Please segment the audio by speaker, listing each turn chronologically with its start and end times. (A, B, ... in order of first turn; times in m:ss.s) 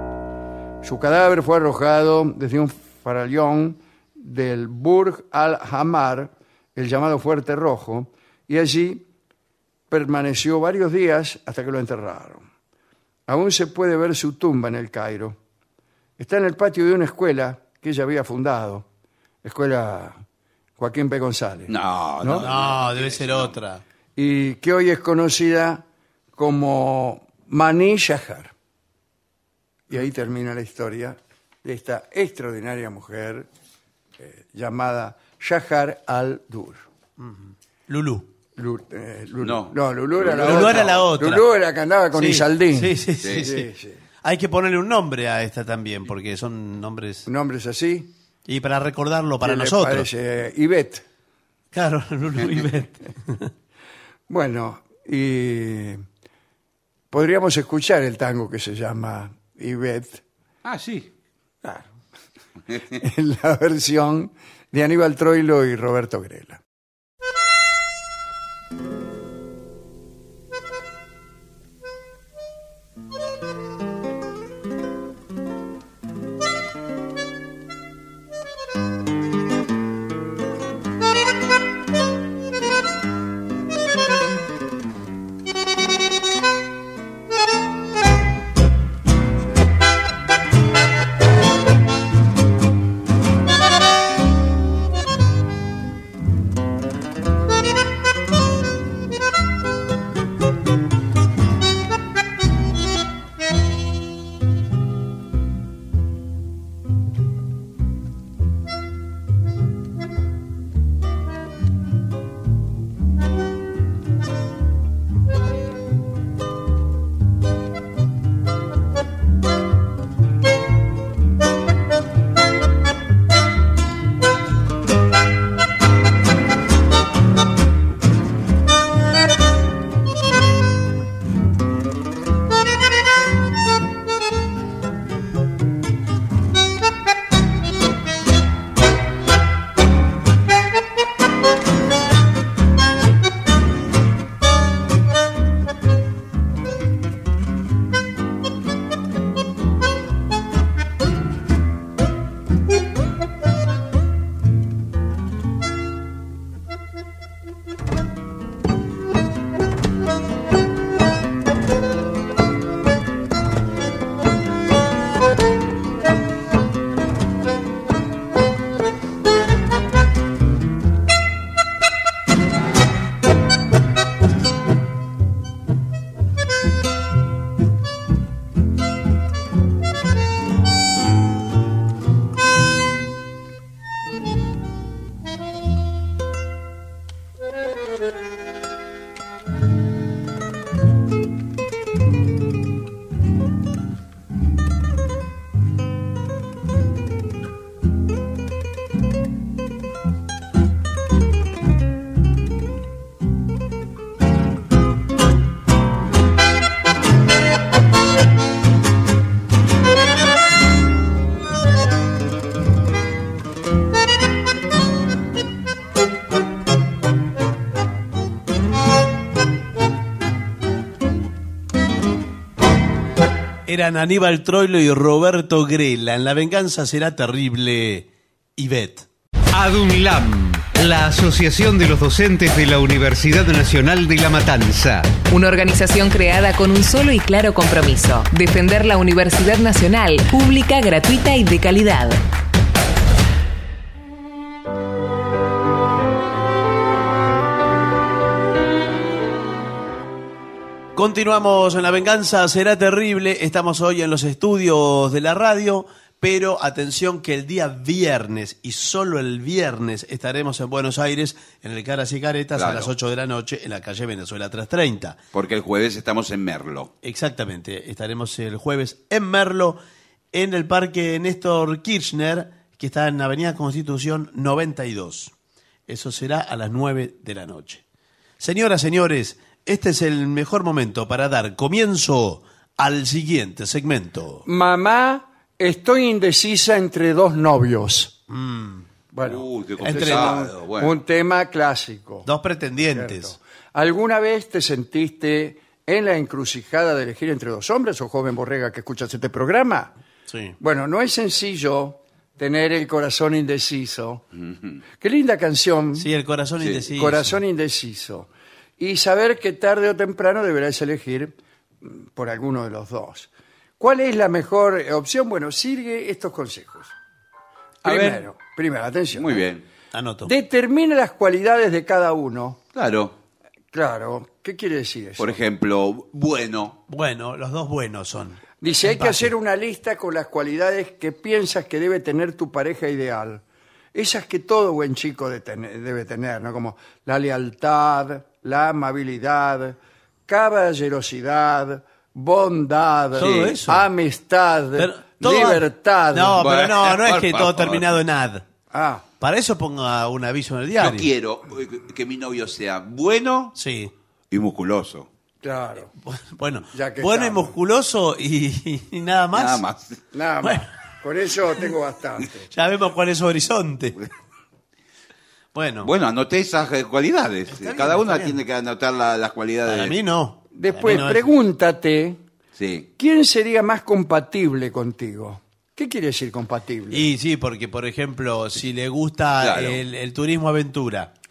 0:00.8-0:09.0 A
0:09.9-0:12.4 A
0:13.3-0:15.4 A
0:16.2-0:18.9 A
0:19.4-0:20.2 A
0:20.8-0:22.5 A
0:21.7-0:23.5 B
0:22.4-0:23.8 C
0:24.2-0:25.8 A
0:26.4-0:28.5 A
0:29.9-0:33.5 A
0:34.2-0:36.9 A
0:37.2-0:38.3 C
0:38.6-0:44.0 A
0:39.4-0:41.0 B
0:40.4-0:41.4 C
0:42.2-0:43.7 C
0:44.2-0:47.3 C
0:47.3-0:48.1 A
0:48.5-0:50.1 C
0:49.4-0:51.0 A
0:51.7-0:53.5 C
0:54.3-0:56.0 A
0:57.1-1:00.2 A
1:00.6-1:01.1 B
1:03.0-1:06.6 A
3:43.7-3:49.1 C
3:49.5-3:55.2 D
3:55.3-4:02.2 E
4:11.0-4:25.2 C
4:22.6-4:22.9 B
4:25.3-4:26.9 B
4:27.0-4:29.8 C
4:30.3-4:35.3 C
4:35.9-4:37.8 C
4:38.4-4:44.5 C
4:44.5-4:48.2 A
4:48.3-4:48.8 C
4:49.1-4:52.3 A
4:49.2-4:51.0 B
4:49.8-4:50.4 C
4:52.2-4:53.4 C
4:52.9-4:59.9 A
5:00.3-5:00.6 C
5:00.6-5:04.2 A
5:05.0-5:06.1 A
5:06.0-5:07.4 C
5:06.9-5:16.9 A
5:17.8-5:19.4 A
5:17.9-5:18.2 B
5:19.1-5:19.6 B
5:19.9-5:20.3 C
5:20.2-5:22.6 A
5:22.7-5:23.2 B
5:23.7-5:25.4 A
5:25.2-5:26.8 B
5:26.9-5:29.3 C
5:28.6-5:33.4 A
5:33.9-5:39.8 A
5:40.3-5:46.4 A
5:43.2-5:43.9 C
5:43.2-5:43.6 B
5:44.8-5:48.4 C
5:46.4-5:48.0 B
5:48.7-5:49.0 A
5:49.2-5:51.1 C
5:50.8-5:53.6 B
5:53.6-5:53.9 C
5:54.3-5:55.1 B
5:55.4-5:55.9 A
5:56.0-5:59.6 C
5:56.7-5:57.5 A
5:59.3-6:00.0 B
6:00.1-6:02.5 A
6:00.4-6:00.7 C
6:02.5-6:04.0 C
6:05.5-6:05.9 C
6:05.8-6:10.0 B
6:07.5-6:08.4 C
6:09.7-6:11.3 C
6:10.5-6:12.2 A
6:12.6-6:12.9 B
6:13.0-6:17.1 A
6:16.9-6:21.1 C
6:19.4-6:19.8 B